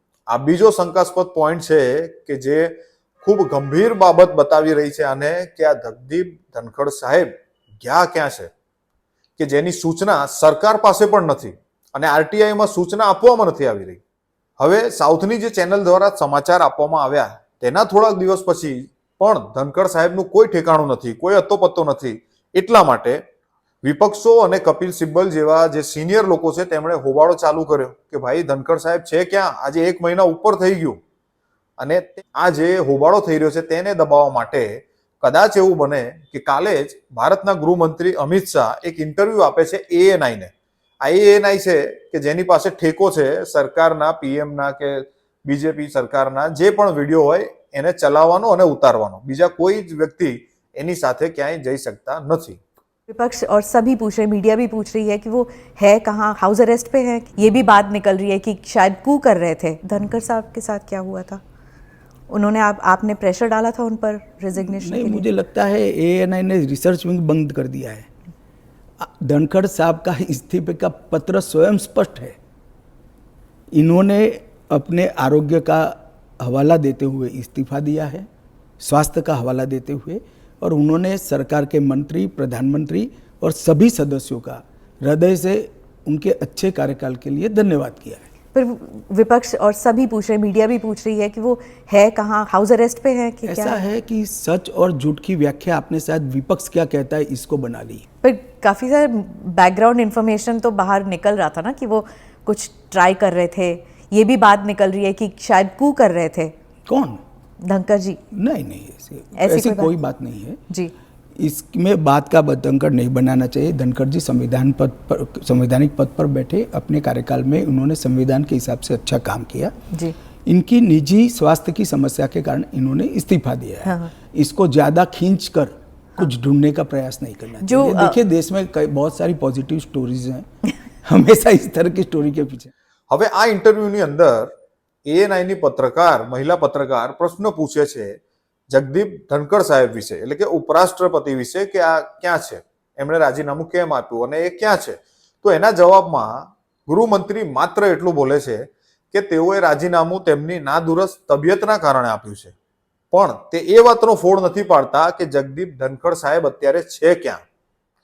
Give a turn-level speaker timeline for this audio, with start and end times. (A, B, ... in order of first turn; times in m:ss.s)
0:00.3-0:08.5 A
0:09.4-0:14.0 A
0:14.6-0:23.2 A
0:23.8-0:31.0 A
0:31.8-0:52.6 A
0:53.1-1:01.4 B
1:02.3-1:05.3 B
1:04.6-1:08.1 C
1:09.0-1:12.4 C
1:13.8-1:18.3 C
1:18.8-1:28.2 C
1:28.5-1:33.8 B
1:33.4-1:38.1 C
1:38.2-1:46.5 B
1:46.9-1:47.2 C
1:47.6-1:48.2 B
1:48.3-1:50.6 C
1:49.4-1:49.9 B
1:51.4-1:59.8 C
2:00.5-2:10.5 C
2:03.8-2:04.1 B
2:07.6-2:08.2 B
2:11.0-2:12.7 C
2:13.1-2:14.5 A
2:15.1-2:18.2 A
2:18.7-2:32.6 A
2:33.1-2:37.4 A